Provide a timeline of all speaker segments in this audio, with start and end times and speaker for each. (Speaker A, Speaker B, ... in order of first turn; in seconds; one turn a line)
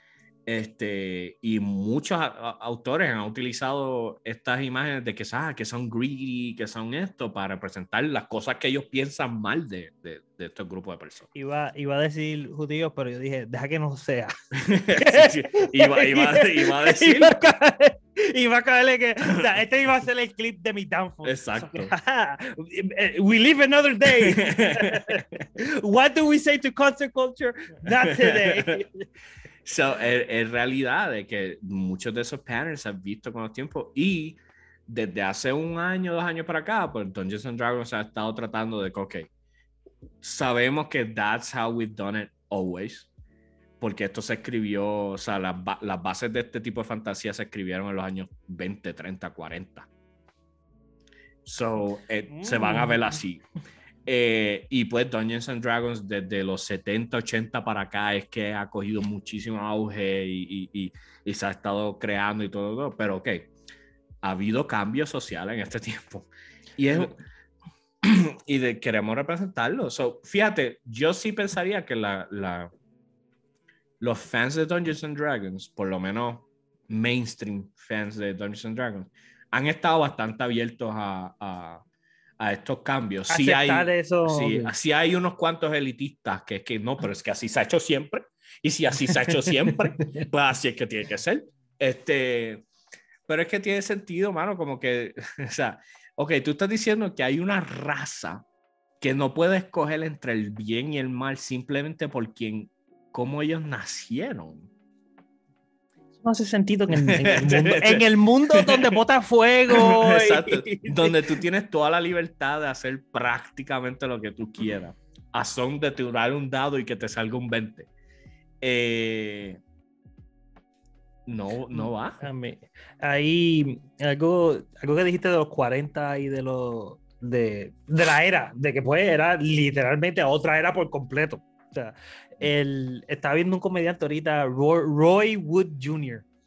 Speaker A: 0.5-11.3
Speaker B: 11.3-14.3
Speaker A: 14.5-17.4
Speaker B: 14.9-29.1
Speaker A: 21.2-21.9
Speaker A: 24.2-25.2
Speaker A: 28.0-28.8
Speaker A: 29.6-39.3
Speaker A: 40.2-43.1
Speaker A: 43.8-49.9
Speaker A: 51.5-53.4
Speaker B: 52.3-53.1
Speaker A: 54.1-63.5
Speaker A: 64.2-67.2
Speaker A: 68.0-72.7
Speaker A: 74.0-81.8
Speaker A: 82.4-92.6
Speaker B: 83.3-84.7
Speaker B: 89.1-90.2
Speaker A: 93.3-98.4
Speaker A: 99.0-104.7
Speaker B: 106.2-111.4
Speaker A: 106.9-109.0
Speaker A: 109.7-117.9
Speaker A: 118.6-119.6
Speaker A: 121.3-122.2
Speaker B: 121.7-136.2